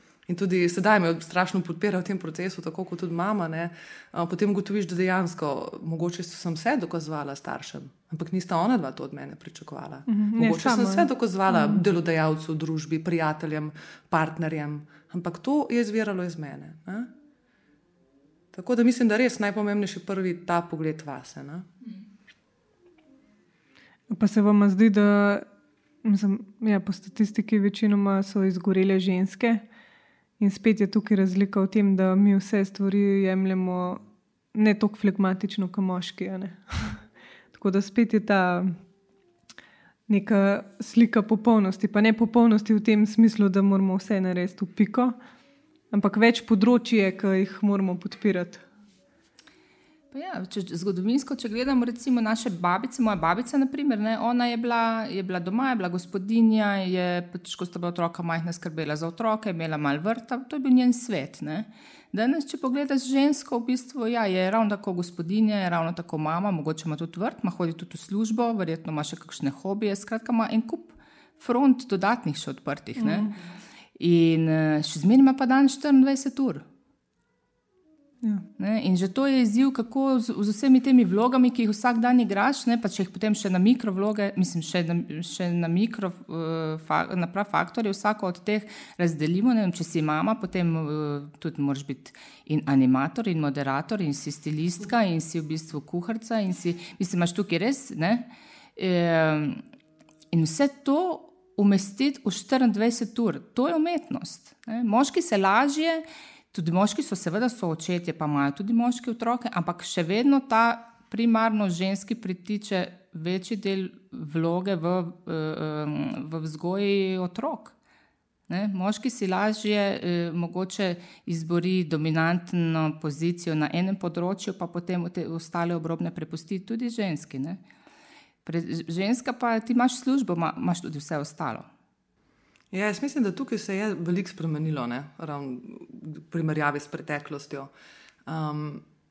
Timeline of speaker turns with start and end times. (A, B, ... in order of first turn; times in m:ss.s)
0:00.3-0:17.1 A
0:10.1-0:11.8 B
0:18.5-0:21.7 A
0:24.1-0:25.5 B
0:26.0-0:29.6 B
0:30.4-0:34.0 B
0:34.5-0:38.8 B
0:40.1-0:45.2 B
0:45.9-0:48.6 B
0:50.1-1:13.3 C
1:13.0-1:13.4 B
1:14.0-1:16.6 C
1:18.6-1:39.6 C
1:40.3-1:57.8 C
1:58.5-2:07.6 C
2:08.4-2:11.7 C
2:12.7-2:17.7 A
2:18.3-2:18.8 A